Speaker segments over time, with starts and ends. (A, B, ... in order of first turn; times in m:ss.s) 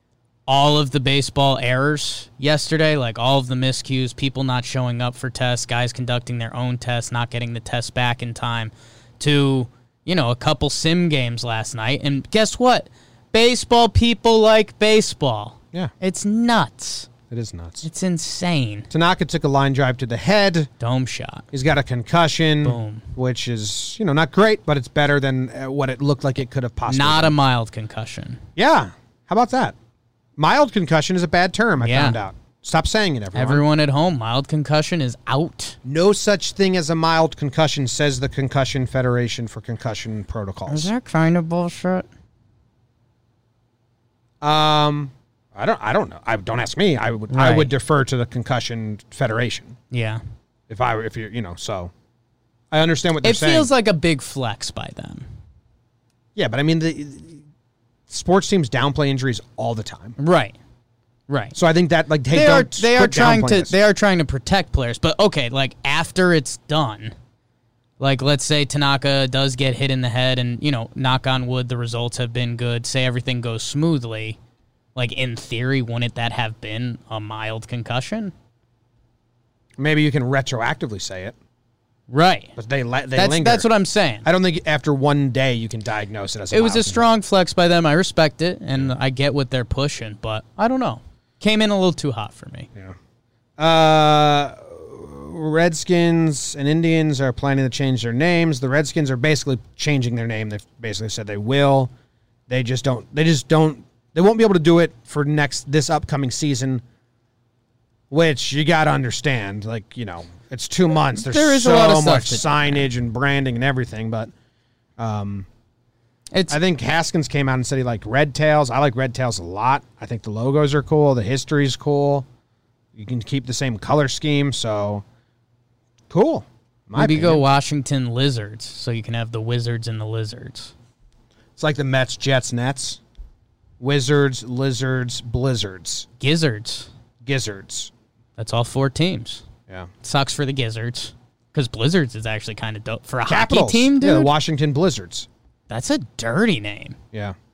0:00.5-0:17.1 A
0:17.3-0:17.9 B
0:17.8-0:18.9 A
0:18.9-0:20.7 B
0:20.8-0:21.5 A
0:21.5-0:27.4 B
0:22.6-0:23.0 A
0:26.9-0:28.4 A
0:28.6-0:29.8 B
0:30.4-0:33.6 B
0:31.8-0:32.2 A
0:33.3-0:35.8 A
0:35.8-0:40.9 B
0:40.7-0:42.1 A
0:44.4-0:49.8 B
0:47.3-0:47.7 A
0:49.9-0:50.2 A
0:50.7-0:51.9 B
0:52.7-0:53.7 B
0:53.2-0:55.2 A
0:56.4-0:57.4 B
0:58.1-1:00.2 B
1:00.2-1:00.6 A
1:01.3-1:01.6 A
1:01.6-1:03.7 B
1:02.3-1:07.1 A
1:08.0-1:14.4 A
1:15.0-1:18.3 A
1:19.8-1:21.4 B
1:22.1-1:22.5 A
1:22.6-1:23.7 B
1:23.2-1:24.3 A
1:24.2-1:27.1 B
1:26.5-1:32.7 A
1:33.6-1:41.9 B
1:42.5-1:46.8 B
1:48.1-1:54.3 B
1:51.2-1:52.9 A
1:55.0-1:55.5 B
1:56.3-1:56.6 A
1:56.5-2:02.3 B
2:02.9-2:05.0 B
2:06.1-2:07.4 B
2:07.0-2:10.7 A
2:11.6-2:13.0 B
2:13.8-2:16.1 B
2:16.2-2:16.9 A
2:17.2-2:17.9 B
2:18.4-2:19.4 A
2:20.0-2:24.3 A
2:23.3-2:25.3 B
2:25.7-2:27.0 A